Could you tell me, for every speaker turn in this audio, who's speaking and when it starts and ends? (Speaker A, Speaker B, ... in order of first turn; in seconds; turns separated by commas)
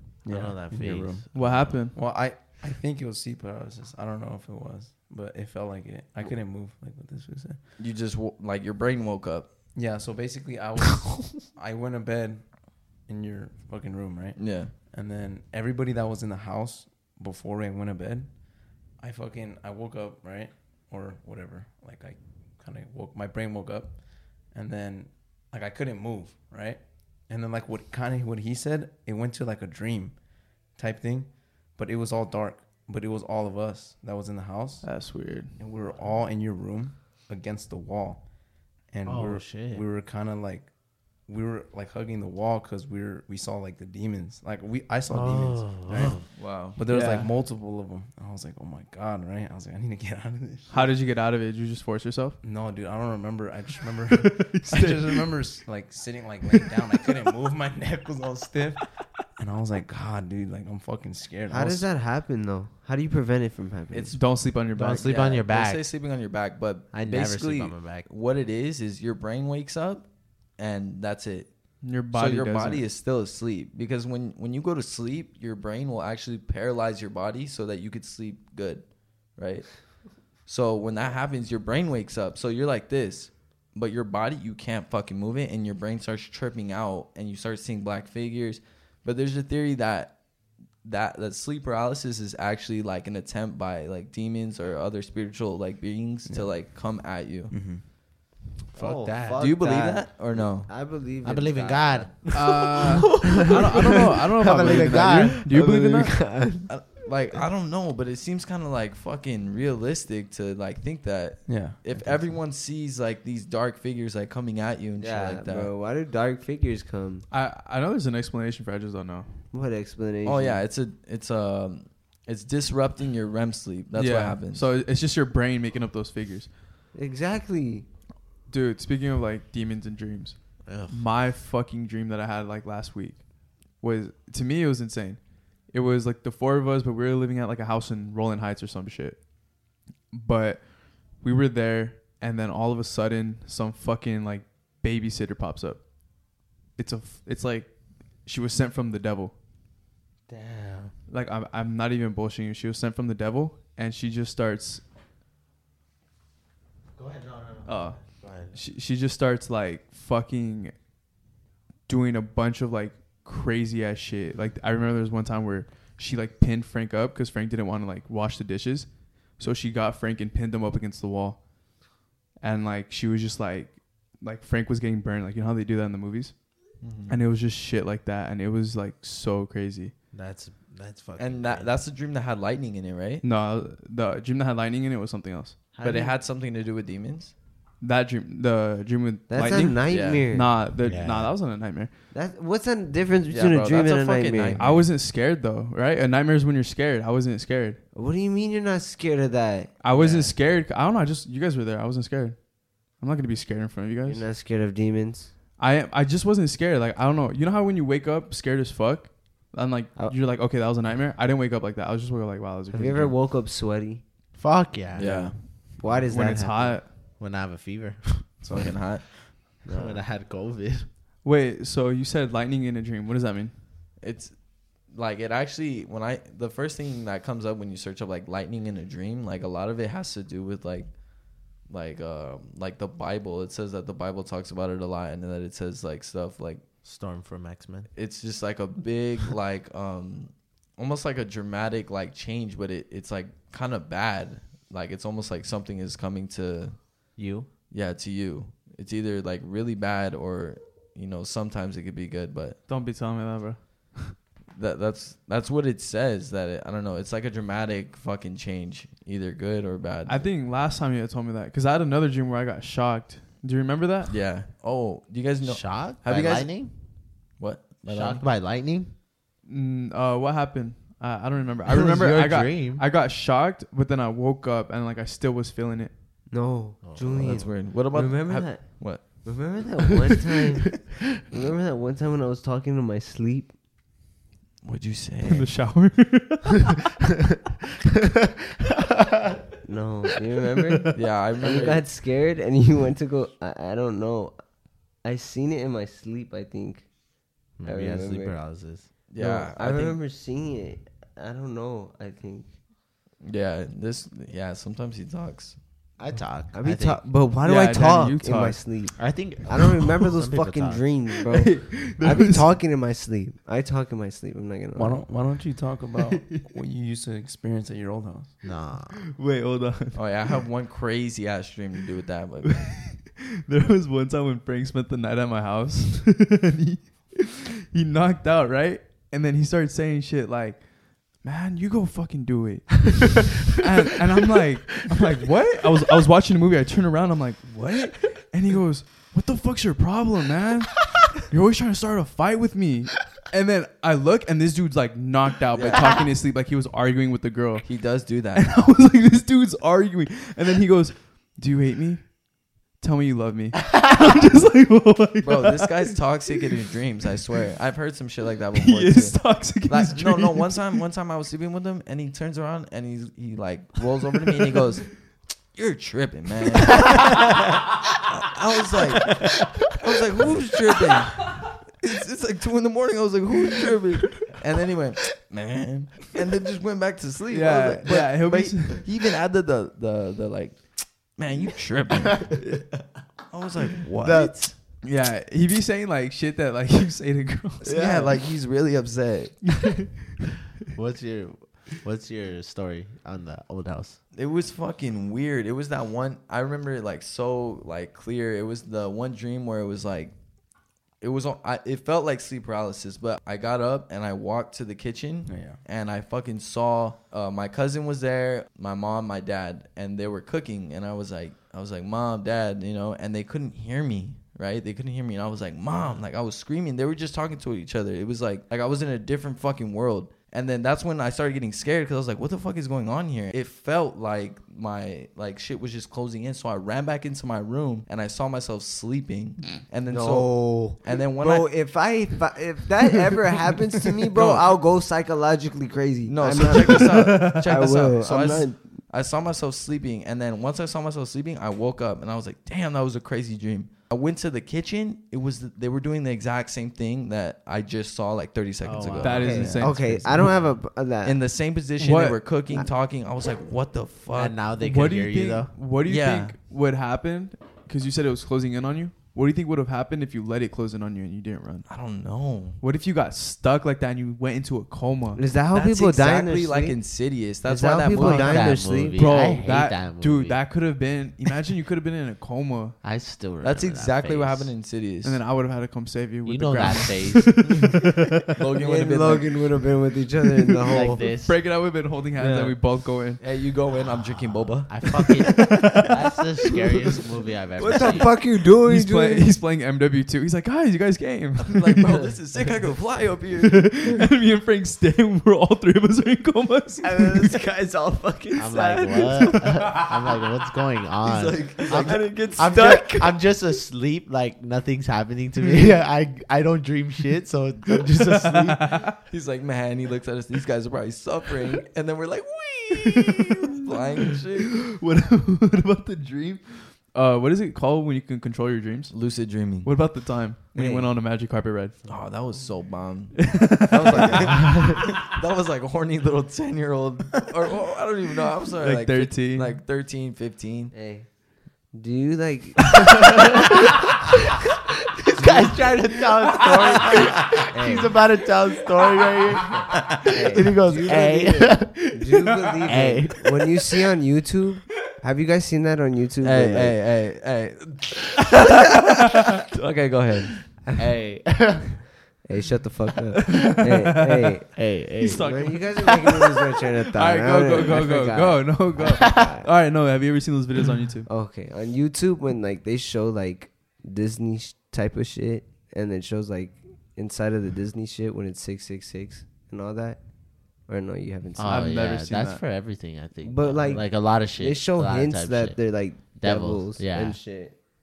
Speaker A: 0.2-1.3, Speaker B: 0.2-1.8, Speaker C: 1.3-2.0, Speaker A: 1.9-7.6, Speaker D: 7.8-9.5, Speaker A: 9.7-35.0, Speaker D: 14.3-14.7, Speaker C: 34.8-35.6, Speaker A: 35.6-50.9, Speaker B: 39.0-39.8, Speaker B: 45.1-46.2, Speaker D: 46.3-46.8, Speaker C: 46.8-47.3, Speaker C: 50.7-52.4, Speaker A: 52.4-61.9, Speaker C: 54.1-55.3, Speaker E: 61.5-64.2, Speaker D: 63.9-64.2, Speaker C: 64.1-65.1, Speaker B: 64.7-65.9, Speaker D: 65.0-90.2, Speaker B: 66.9-68.1, Speaker C: 71.8-72.8, Speaker D: 90.8-97.5, Speaker A: 96.3-96.5, Speaker A: 97.5-97.8, Speaker B: 98.7-99.4, Speaker E: 98.7-106.7, Speaker D: 99.4-100.7, Speaker B: 101.2-105.4, Speaker C: 102.3-106.2, Speaker D: 106.7-115.7, Speaker A: 111.5-112.2, Speaker E: 115.0-117.2, Speaker C: 117.3-119.4, Speaker E: 119.5-120.6, Speaker D: 120.2-124.7, Speaker C: 123.9-126.5, Speaker E: 126.9-127.9, Speaker C: 128.5-139.3, Speaker B: 130.6-131.0, Speaker C: 140.1-149.3, Speaker B: 150.3-150.9, Speaker C: 151.1-154.8, Speaker B: 156.9-158.6, Speaker C: 157.7-160.8, Speaker C: 161.8-171.5, Speaker C: 172.4-176.4, Speaker D: 176.8-177.2, Speaker C: 177.1-179.9, Speaker B: 180.1-181.8, Speaker D: 181.2-183.2, Speaker C: 183.2-185.7, Speaker B: 185.7-186.2, Speaker D: 185.8-187.3, Speaker C: 187.8-191.9, Speaker E: 189.3-190.5, Speaker D: 189.9-190.2, Speaker B: 190.8-191.3, Speaker E: 192.1-194.6, Speaker D: 193.3-194.9, Speaker C: 194.6-197.8, Speaker E: 197.9-200.3, Speaker C: 199.8-204.2, Speaker E: 204.1-205.3, Speaker C: 205.6-213.2, Speaker E: 212.7-214.0, Speaker B: 214.3-215.3, Speaker D: 214.9-215.4, Speaker E: 215.0-216.8, Speaker C: 216.1-217.0, Speaker B: 217.2-218.6, Speaker D: 218.4-219.1, Speaker E: 219.6-220.0, Speaker B: 219.7-220.9, Speaker C: 221.2-223.5, Speaker D: 224.0-236.6, Speaker B: 236.8-237.9, Speaker D: 237.9-247.0, Speaker B: 247.2-247.5, Speaker D: 247.7-252.6, Speaker C: 252.7-254.1, Speaker D: 254.5-260.3, Speaker C: 260.1-264.2, Speaker D: 264.1-266.8, Speaker B: 265.4-266.7, Speaker D: 267.4-268.2, Speaker B: 267.9-268.9, Speaker C: 269.4-275.9, Speaker B: 271.6-272.8, Speaker E: 276.3-283.5, Speaker B: 276.8-277.6, Speaker D: 277.1-279.4, Speaker D: 284.6-285.6, Speaker C: 285.2-286.8, Speaker E: 289.6-294.4, Speaker D: 290.9-291.8, Speaker E: 295.0-296.9, Speaker E: 297.5-302.5, Speaker B: 297.6-298.9, Speaker D: 299.1-300.0, Speaker D: 303.2-305.6, Speaker B: 306.0-307.1, Speaker E: 306.5-315.0, Speaker C: 307.4-308.8, Speaker B: 309.0-310.9, Speaker C: 311.3-312.6, Speaker A: 314.8-318.4, Speaker C: 316.1-316.5, Speaker B: 318.4-319.0, Speaker C: 318.9-320.0, Speaker D: 319.9-322.6, Speaker C: 322.4-352.2, Speaker D: 345.5-346.1, Speaker D: 347.6-348.5, Speaker C: 352.7-355.9, Speaker D: 355.2-367.4, Speaker C: 358.5-360.8, Speaker B: 366.9-367.1, Speaker D: 368.1-382.6, Speaker C: 377.3-378.9, Speaker D: 383.2-384.6, Speaker B: 384.0-384.5, Speaker C: 384.8-388.1, Speaker D: 387.6-389.6, Speaker C: 389.6-389.9, Speaker B: 390.7-394.0, Speaker D: 394.1-400.1, Speaker D: 401.0-431.6, Speaker A: 405.3-405.6, Speaker E: 429.9-438.7, Speaker D: 434.1-434.5, Speaker D: 436.1-449.4, Speaker C: 437.1-437.7, Speaker B: 448.6-449.3, Speaker C: 449.0-450.4, Speaker E: 449.1-451.2, Speaker A: 449.4-449.8, Speaker D: 451.0-454.5, Speaker C: 451.8-452.2, Speaker B: 454.1-455.6, Speaker C: 454.6-461.7, Speaker D: 455.8-456.3, Speaker D: 461.7-462.6, Speaker C: 462.6-465.2, Speaker E: 465.1-466.9, Speaker D: 465.4-468.8, Speaker E: 467.4-469.1, Speaker B: 468.0-470.4, Speaker C: 468.9-472.8, Speaker B: 472.8-474.5, Speaker D: 473.4-475.2, Speaker C: 475.0-478.4, Speaker B: 476.2-477.4, Speaker D: 478.4-479.4, Speaker E: 478.6-481.0, Speaker C: 480.6-483.2, Speaker B: 480.7-481.4, Speaker E: 482.1-482.6, Speaker D: 483.2-484.9, Speaker B: 484.6-488.1, Speaker C: 485.4-486.2, Speaker E: 487.6-489.3, Speaker C: 487.8-492.1, Speaker D: 491.4-493.8, Speaker C: 493.4-497.4, Speaker D: 496.9-499.8, Speaker B: 498.4-508.7, Speaker C: 498.9-499.8, Speaker D: 501.0-503.1, Speaker C: 508.2-509.0, Speaker D: 509.0-514.5, Speaker C: 512.8-521.8, Speaker D: 518.9-519.7, Speaker E: 520.5-520.9, Speaker D: 521.8-530.7, Speaker C: 523.1-525.0, Speaker C: 528.6-529.5, Speaker E: 530.7-531.1, Speaker E: 531.7-533.1, Speaker B: 533.0-533.7, Speaker B: 535.0-542.1, Speaker E: 536.7-538.0, Speaker E: 540.0-546.8, Speaker B: 542.6-543.5, Speaker D: 546.2-550.6, Speaker B: 550.8-551.8, Speaker E: 552.2-559.5, Speaker C: 553.2-554.5, Speaker B: 554.5-555.3, Speaker C: 555.0-561.1, Speaker E: 561.1-571.8, Speaker B: 571.4-577.2, Speaker C: 571.4-572.4, Speaker E: 573.2-577.5